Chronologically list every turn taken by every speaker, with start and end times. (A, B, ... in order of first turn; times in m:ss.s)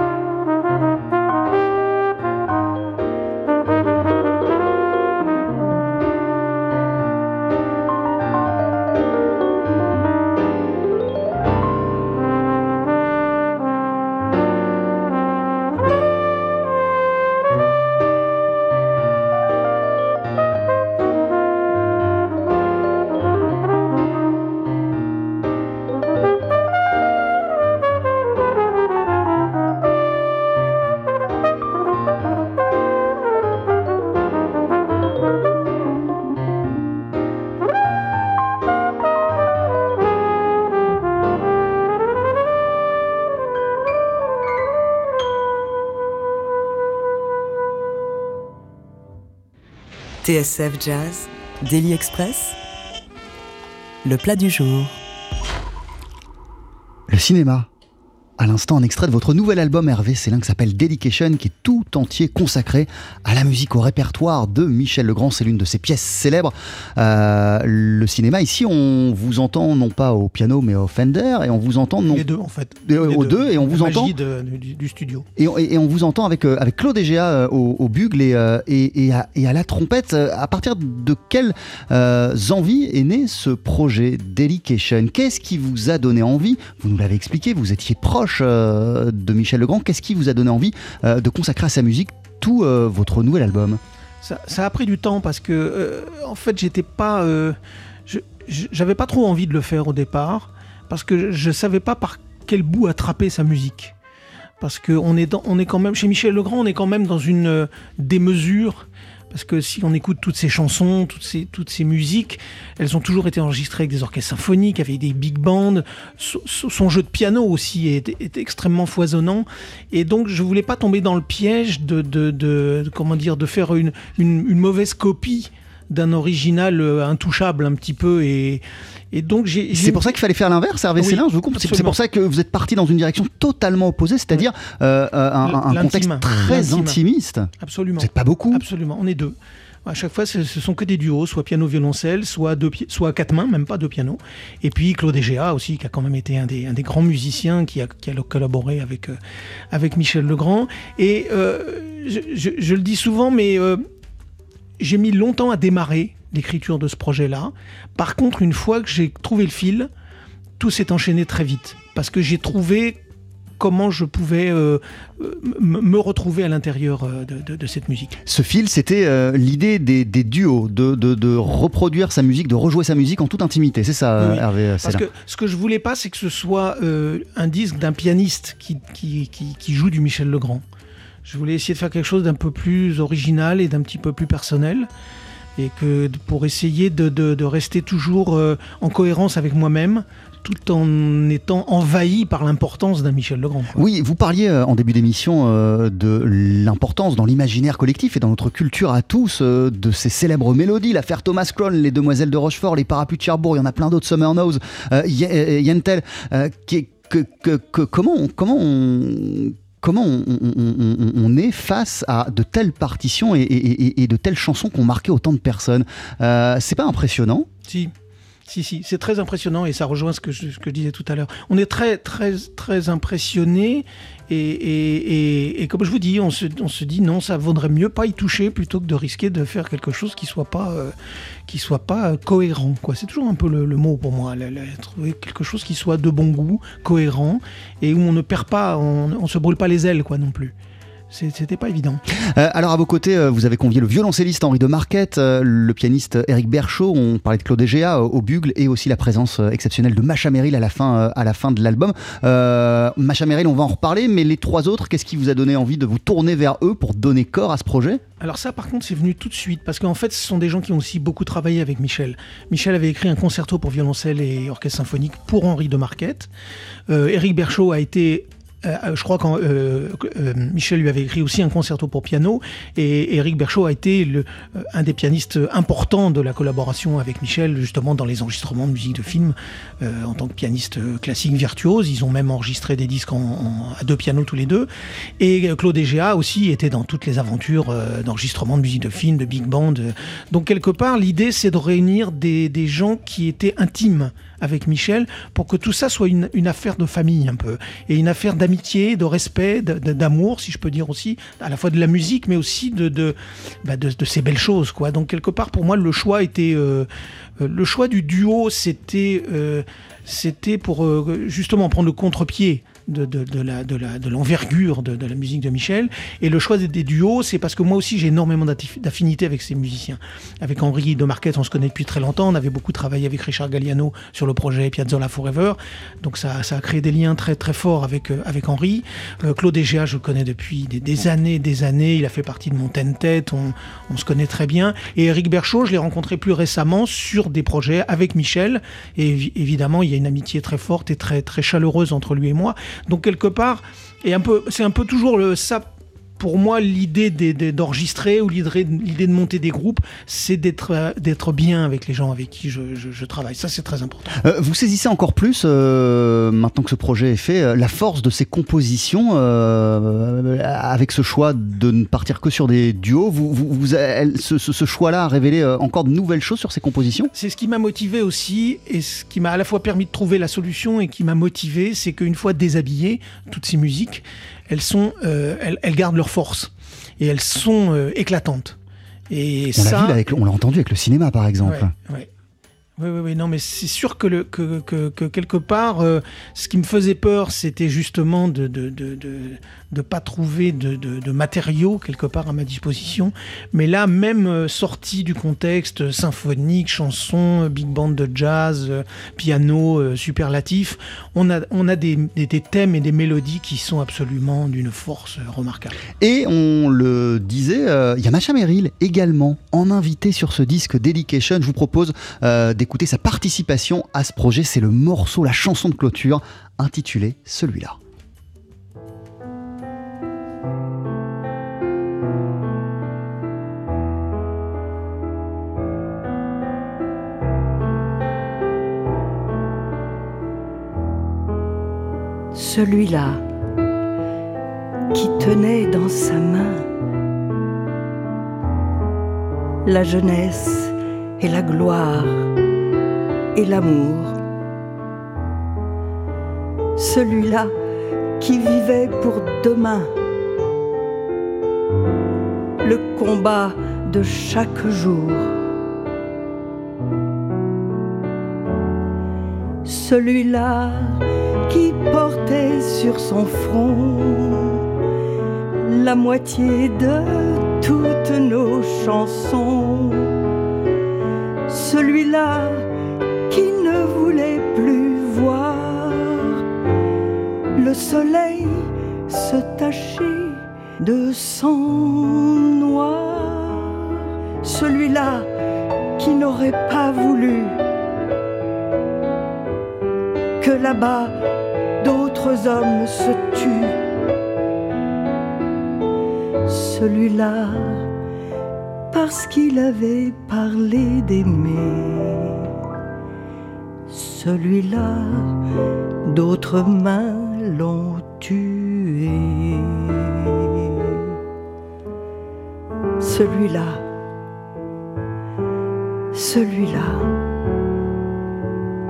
0:50.2-0:52.6 A
0:54.0-0:55.0 A
0:57.1-0:57.7 B
0:58.4-1:12.3 B
1:12.1-1:15.2 C
1:12.8-1:14.1 B
1:15.4-1:33.8 B
1:34.2-1:37.6 C
1:38.1-1:43.9 C
1:44.6-2:10.2 C
2:09.7-2:18.6 B
2:11.0-2:12.0 C
2:15.4-2:17.0 C
2:17.6-2:19.3 C
2:19.8-2:29.2 C
2:29.7-2:33.8 C
2:34.8-2:39.9 C
2:40.6-2:43.0 C
2:43.6-2:48.2 C
2:48.2-2:55.0 B
2:54.2-3:00.6 C
3:01.2-3:04.9 C
3:05.6-3:13.8 C
3:13.8-3:37.5 B
3:37.6-3:37.9 C
3:38.5-3:50.9 C
3:51.5-4:00.5 C
4:01.1-4:02.0 C
4:02.1-4:18.0 B
4:18.2-4:26.3 C
4:26.9-5:06.9 C
5:07.4-5:45.6 C
5:46.2-5:54.2 C
5:54.2-6:07.1 B
6:07.1-6:18.6 C
6:19.1-6:20.0 C
6:19.5-6:21.7 B
6:21.4-6:22.1 C
6:22.8-6:45.8 C
6:46.0-6:57.8 B
7:12.3-7:13.2 D
7:14.9-7:16.7 D
7:19.6-7:22.3 D
7:23.3-7:24.2 D
7:26.8-7:27.5 D
7:28.2-7:29.9 D
7:32.6-7:35.4 D
7:39.6-7:44.6 D
7:45.6-7:50.2 D
7:51.5-7:52.7 D
7:53.3-7:56.4 D
7:57.5-8:05.3 D
8:06.0-8:07.6 D
8:10.4-8:11.2 D
8:11.8-8:13.8 D
8:16.4-8:17.9 D
8:18.9-8:22.5 D
8:23.9-8:25.4 D
8:26.0-8:31.1 D
8:33.0-8:33.8 D
8:36.1-8:37.1 D